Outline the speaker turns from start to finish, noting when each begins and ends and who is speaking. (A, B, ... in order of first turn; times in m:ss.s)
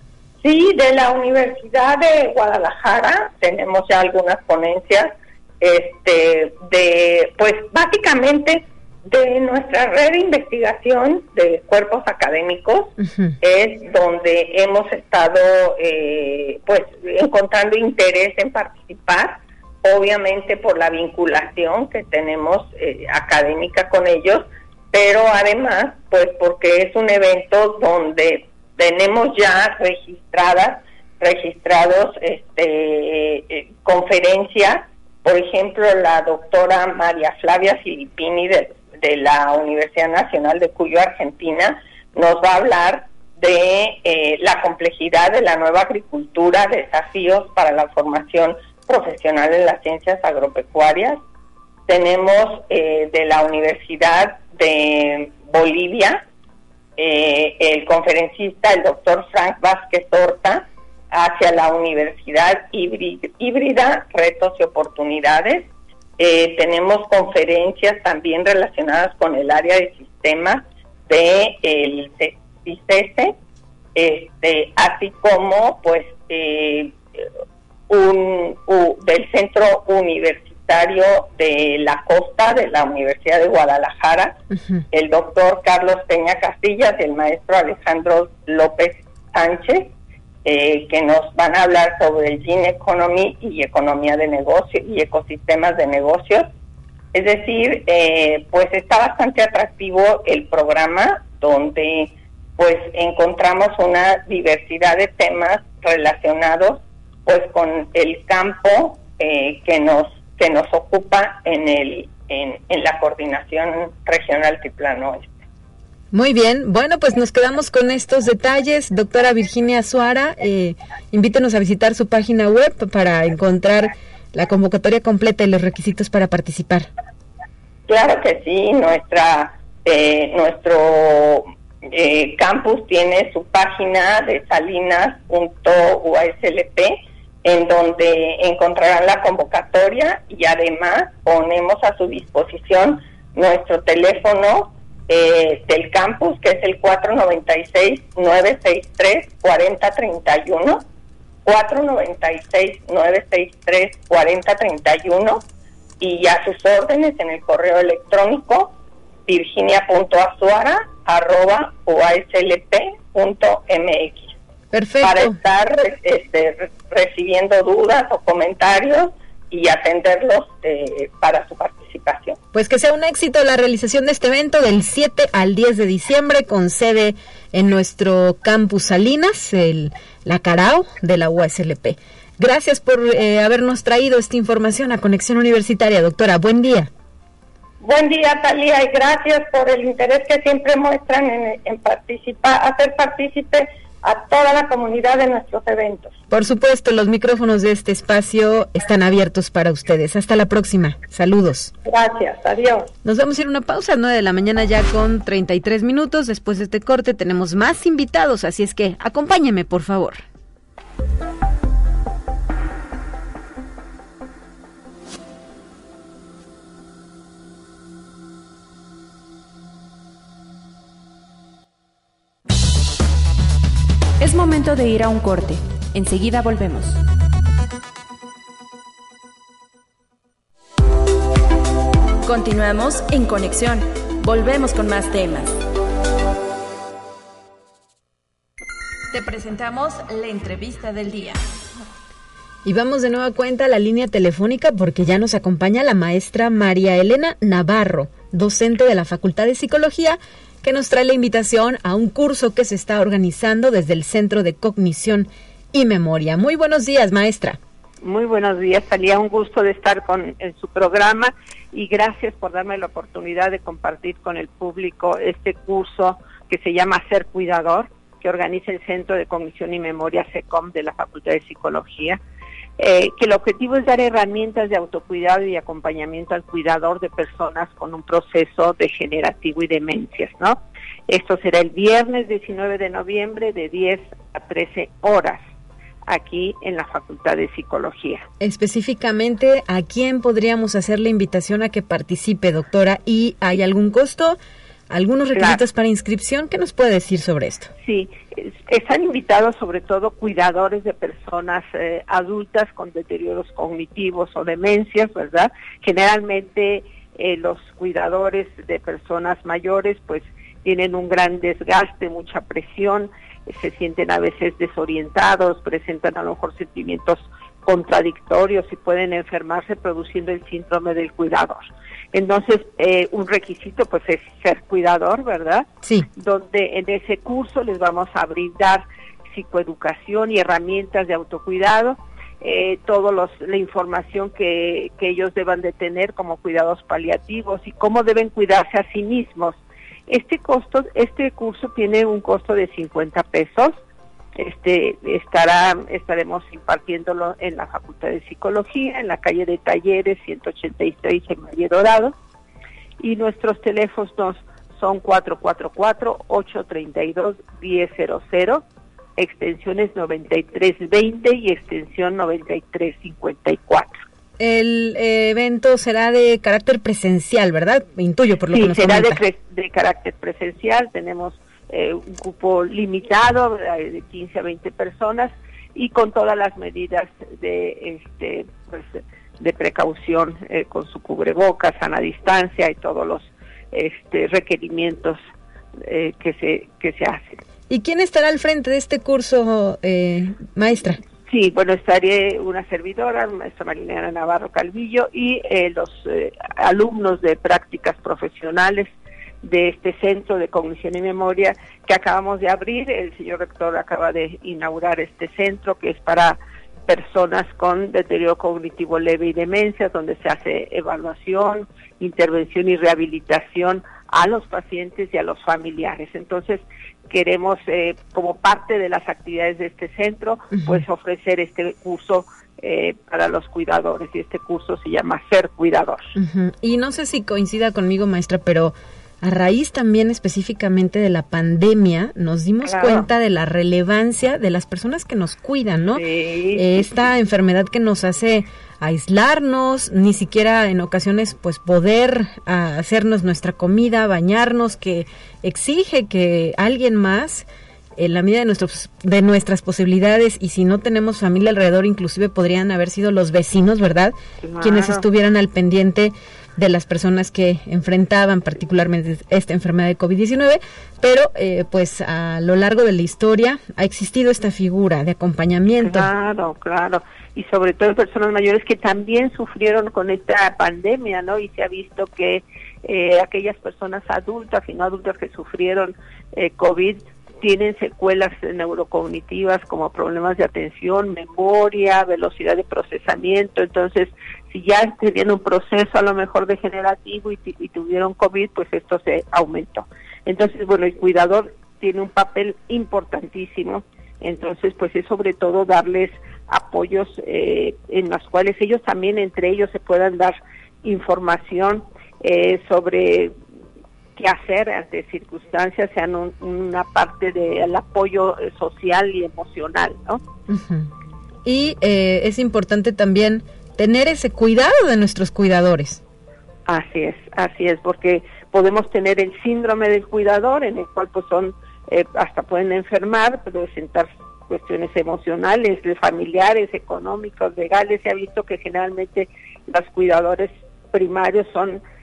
0:00.4-0:51.2 A
0:13.1-0:13.3 B
0:51.9-0:56.2 A
0:57.0-1:05.7 A
1:06.2-1:13.3 A
1:14.0-1:17.0 A
1:17.9-1:24.4 A
1:24.5-1:24.8 B
1:24.9-1:29.9 A
1:30.4-1:36.5 A
1:37.1-1:55.3 A
1:56.1-2:06.9 B
2:07.9-2:30.8 A
2:31.4-2:35.4 A
2:36.0-2:38.7 A
2:39.3-2:44.3 A
2:44.7-2:45.4 B
2:45.0-2:52.4 A
2:52.5-3:06.9 B
3:07.8-3:16.1 A
3:16.3-3:21.7 B
3:21.8-3:22.9 A
3:23.0-3:30.2 B
3:44.2-3:47.0 C
3:52.2-3:55.6 C
3:59.1-4:01.4 C
4:02.6-4:17.6 B
4:18.0-4:32.2 D
4:32.8-4:45.4 D
4:46.1-4:48.3 D
4:48.4-4:54.4 B
4:54.9-4:57.7 B
4:55.3-4:55.6 D
4:57.8-5:43.8 D
5:44.4-5:52.1 D
5:53.0-5:58.6 D
5:59.2-6:03.9 D
6:04.4-6:09.2 B
6:08.5-6:25.2 D
6:25.8-6:27.4 D
6:27.7-6:31.0 B
6:31.3-6:38.9 D
6:39.4-7:06.1 D
7:00.5-7:00.8 B
7:06.2-7:46.1 B
7:12.6-7:13.1 D
7:16.0-7:16.9 D
7:34.4-7:35.0 D
7:45.8-8:23.3 D
8:24.2-8:30.2 D
8:30.5-8:30.9 B
8:31.4-8:36.0 B
8:36.6-8:51.8 D